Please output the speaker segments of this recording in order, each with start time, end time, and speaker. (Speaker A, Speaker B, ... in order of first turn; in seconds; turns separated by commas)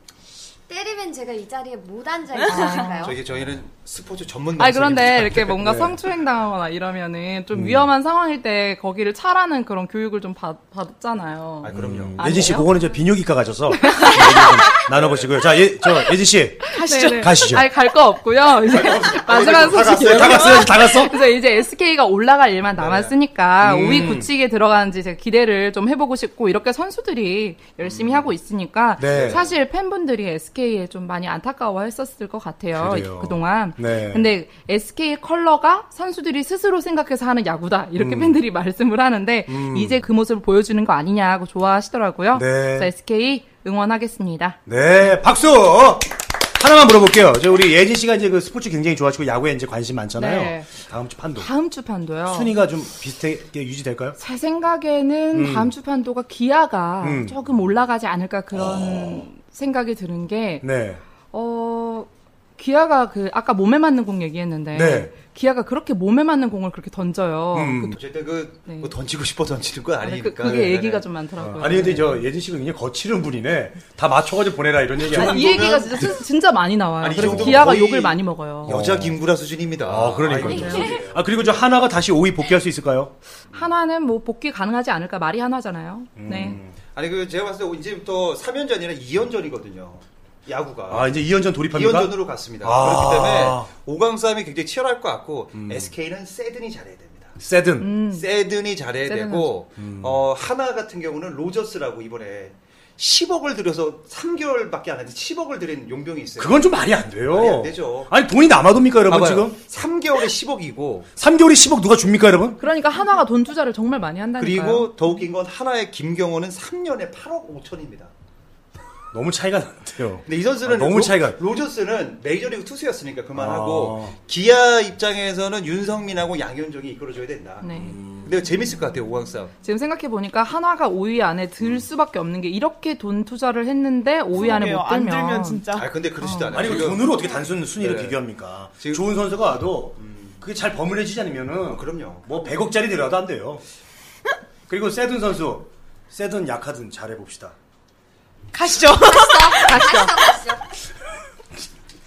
Speaker A: 0.7-3.2, Speaker B: 2.4-3.0, Speaker C: 2.5-3.1, Speaker D: 3.0-5.6, Speaker C: 4.6-12.7, Speaker E: 5.4-6.0, Speaker E: 7.5-7.9, Speaker D: 11.6-12.6, Speaker E: 11.7-17.7, Speaker C: 13.7-14.8, Speaker D: 14.9-15.3, Speaker B: 16.7-17.4, Speaker C: 16.8-45.1, Speaker D: 18.6-20.9, Speaker E: 19.3-21.2, Speaker D: 22.8-23.1, Speaker E: 23.6-24.3, Speaker D: 27.8-28.3, Speaker E: 29.0-29.4, Speaker D: 29.0-29.5, Speaker E: 32.7-34.3, Speaker E: 38.0-38.4, Speaker E: 39.5-40.0, Speaker E: 42.3-42.9, Speaker E: 44.7-51.5, Speaker C: 50.1-50.7, Speaker C: 51.4-52.5, Speaker E: 52.3-54.2, Speaker C: 54.2-60.7, Speaker E: 55.3-55.7, Speaker E: 57.0-57.4, Speaker E: 58.5-59.3, Speaker E: 60.6-61.0, Speaker C: 61.3-68.0, Speaker E: 64.7-65.1, Speaker E: 67.5-68.0, Speaker D: 67.9-71.1, Speaker C: 70.0-72.1, Speaker E: 70.4-70.8, Speaker E: 71.4-76.2, Speaker D: 71.6-72.0, Speaker D: 75.0-76.2, Speaker C: 75.1-78.7, Speaker D: 77.0-81.3, Speaker E: 77.1-77.7, Speaker E: 78.7-79.2, Speaker E: 79.8-83.1, Speaker A: 80.5-80.9, Speaker C: 80.5-81.0, Speaker C: 83.5-86.6, Speaker E: 86.2-86.8, Speaker D: 86.9-91.2, Speaker E: 90.9-93.7, Speaker D: 91.7-97.4, Speaker E: 95.5-95.9, Speaker E: 97.4-97.9, Speaker C: 97.8-98.3, Speaker D: 98.1-106.7, Speaker C: 99.0-99.5, Speaker E: 99.8-100.2, Speaker E: 106.4-109.6, Speaker D: 107.3-108.1, Speaker D: 109.1-111.1, Speaker E: 111.2-112.6, Speaker C: 112.6-114.9, Speaker D: 114.4-118.1, Speaker E: 119.1-121.4, Speaker D: 120.3-129.5, Speaker E: 123.3-124.2, Speaker C: 127.6-128.0, Speaker E: 127.8-128.4, Speaker C: 129.6-135.7, Speaker B: 134.3-135.9, Speaker D: 135.8-138.2, Speaker C: 136.2-136.8, Speaker E: 136.5-143.6, Speaker D: 138.8-139.0, Speaker D: 140.0-140.4, Speaker D: 141.7-142.3, Speaker E: 144.7-147.6, Speaker B: 148.5-150.1, Speaker A: 149.0-150.6, Speaker C: 149.6-150.1